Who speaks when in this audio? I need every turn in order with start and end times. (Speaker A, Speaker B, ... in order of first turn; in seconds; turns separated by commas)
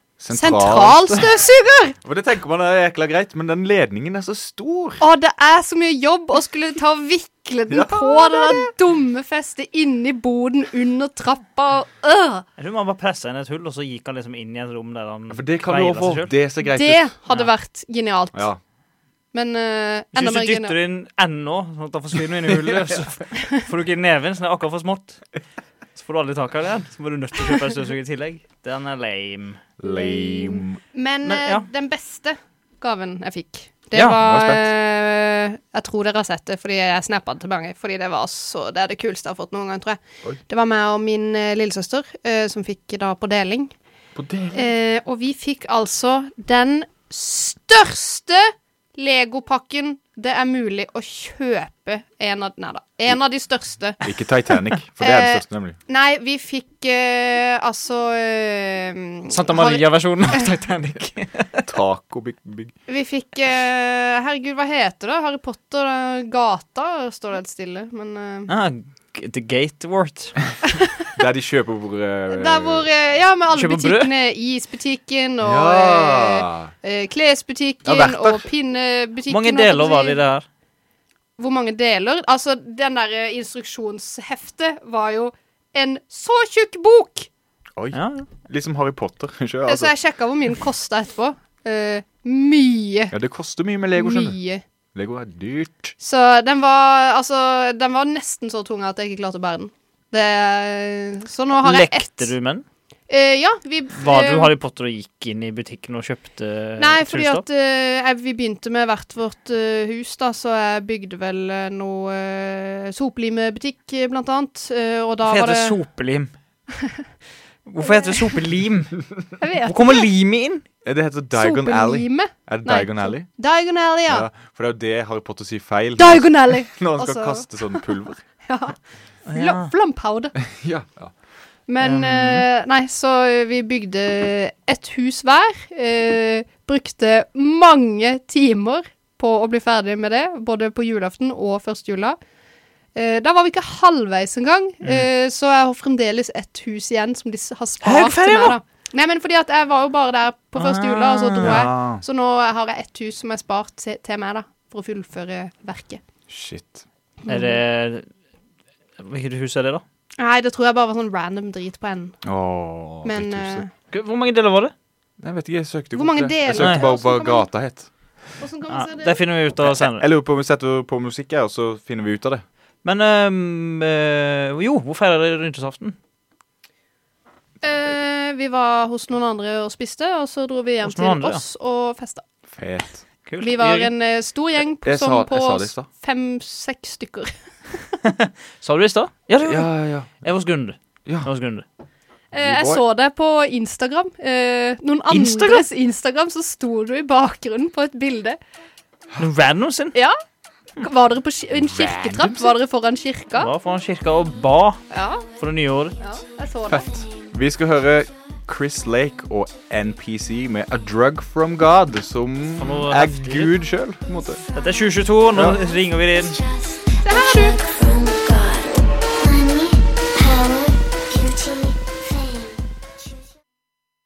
Speaker A: 0.2-1.3, Speaker B: 0.3-1.9, Speaker A: 2.0-5.0, Speaker B: 5.0-12.4, Speaker A: 7.7-8.7, Speaker C: 12.6-16.3, Speaker A: 15.3-17.1, Speaker B: 16.6-18.5, Speaker A: 18.3-18.6, Speaker B: 19.3-20.8, Speaker C: 20.1-25.2, Speaker A: 22.5-23.0, Speaker C: 25.9-29.6, Speaker A: 29.8-30.8, Speaker B: 29.8-43.7, Speaker C: 31.2-31.6, Speaker C: 33.9-34.2, Speaker A: 34.1-34.7, Speaker A: 44.1-44.7, Speaker B: 44.5-54.0, Speaker A: 54.0-55.8, Speaker B: 55.0-60.5, Speaker C: 59.3-61.7, Speaker A: 61.7-62.7, Speaker B: 62.9-68.5, Speaker C: 68.5-70.4, Speaker B: 70.7-71.1, Speaker A: 71.1-72.9, Speaker B: 72.3-80.2, Speaker C: 73.5-74.1, Speaker A: 75.4-76.7, Speaker A: 77.8-78.5, Speaker C: 79.3-80.5, Speaker B: 81.4-87.3, Speaker A: 87.8-89.9, Speaker C: 87.9-88.3, Speaker B: 89.7-93.1, Speaker A: 93.1-94.4, Speaker B: 94.0-94.6, Speaker A: 94.9-95.9, Speaker B: 96.0-102.3, Speaker C: 101.6-102.6, Speaker B: 103.1-104.5, Speaker C: 103.9-107.4, Speaker B: 106.8-115.8, Speaker C: 115.2-116.3, Speaker B: 116.8-117.0, Speaker C: 117.7-119.0, Speaker B: 117.8-118.4, Speaker B: 119.4-120.1, Speaker C: 119.6-120.6, Speaker A: 120.8-123.3, Speaker B: 121.3-124.3, Speaker A: 124.1-128.2, Speaker B: 126.0-127.8, Speaker B: 128.4-128.8, Speaker C: 129.3-129.7, Speaker B: 129.3-130.3, Speaker A: 130.4-131.1, Speaker B: 131.7-142.2, Speaker C: 131.8-132.4, Speaker B: 142.9-156.0, Speaker C: 147.8-148.6, Speaker C: 150.6-151.6, Speaker A: 151.4-152.0, Speaker A: 156.3-156.8, Speaker B: 157.2-157.6, Speaker C: 157.3-158.1, Speaker C: 159.0-159.8, Speaker B: 160.2-162.2, Speaker A: 162.2-163.6, Speaker B: 163.0-163.7, Speaker C: 163.9-164.7, Speaker A: 165.2-167.9, Speaker B: 165.9-167.5, Speaker C: 166.6-166.8, Speaker B: 168.4-169.2, Speaker C: 168.7-170.1, Speaker A: 169.6-172.4, Speaker C: 172.8-176.0, Speaker B: 177.6-182.2, Speaker C: 180.8-181.4, Speaker A: 182.5-183.0, Speaker C: 183.3-183.9, Speaker B: 183.4-187.9, Speaker A: 184.8-185.9, Speaker C: 188.0-191.6, Speaker A: 189.4-190.1, Speaker B: 192.3-198.4, Speaker A: 192.3-192.8, Speaker C: 195.1-195.6, Speaker C: 199.2-199.9, Speaker B: 200.8-203.5, Speaker A: 201.5-202.5, Speaker C: 203.4-204.8, Speaker B: 204.9-205.3, Speaker C: 205.4-206.0, Speaker B: 206.0-206.9, Speaker A: 206.7-214.4, Speaker C: 212.6-213.5, Speaker C: 214.5-216.4, Speaker A: 215.3-215.6, Speaker D: 216.4-222.6, Speaker B: 217.0-217.6